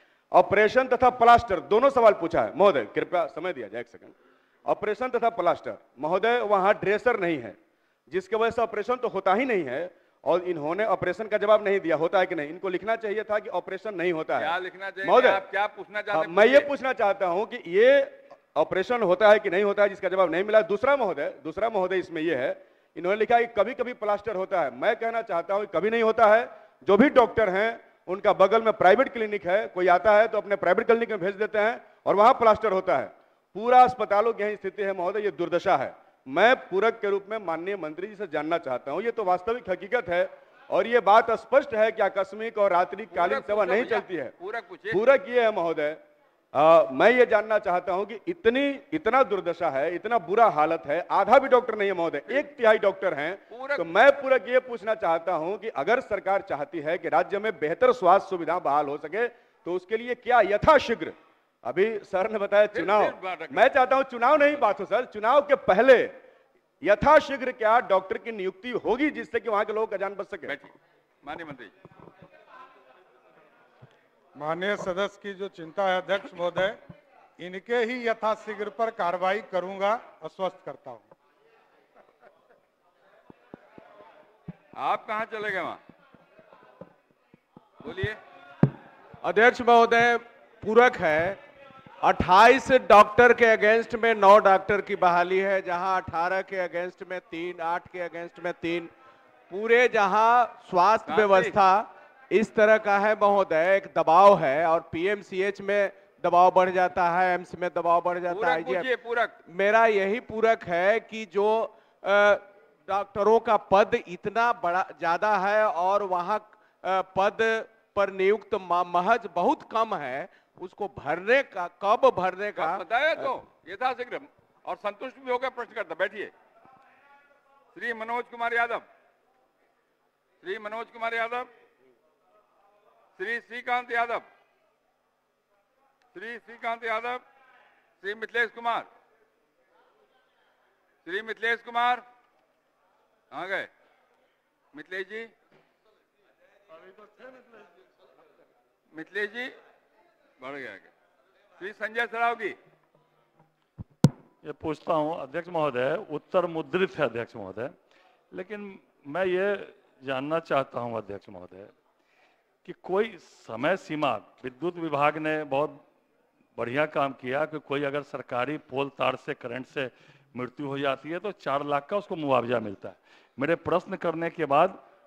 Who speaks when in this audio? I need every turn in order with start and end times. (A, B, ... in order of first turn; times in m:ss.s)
0:00.3-0:04.1 A
0:04.6-0:07.6 A
0:08.1-0:15.4 A
0:14.4-0:16.7 B
0:16.1-0:44.3 A
0:43.1-0:45.0 B
0:44.9-0:46.0 A
0:46.5-1:06.1 A
0:53.5-0:53.8 B
1:02.7-1:03.7 B
1:06.8-1:10.6 A
1:10.4-1:11.7 B
1:14.4-1:16.8 C
1:17.4-1:21.1 C
1:24.8-1:25.8 B
1:27.8-1:28.2 B
1:29.2-1:31.4 D
1:32.0-1:38.9 D
1:39.5-1:48.9 D
1:41.1-1:41.6 B
1:48.3-1:49.3 B
1:49.5-2:03.3 D
2:02.5-2:06.3 B
2:07.7-2:08.8 B
2:10.4-2:11.5 B
2:13.2-2:14.2 B
2:16.1-2:17.2 B
2:18.0-2:18.9 B
2:21.0-2:22.0 B
2:23.3-2:23.7 B
2:24.7-2:25.3 B
2:28.9-2:29.5 B
2:30.4-2:30.9 B
2:31.6-2:32.6 B
2:34.4-2:37.7 E
2:38.3-2:41.7 E
2:42.6-2:45.8 E
2:46.6-2:54.8 E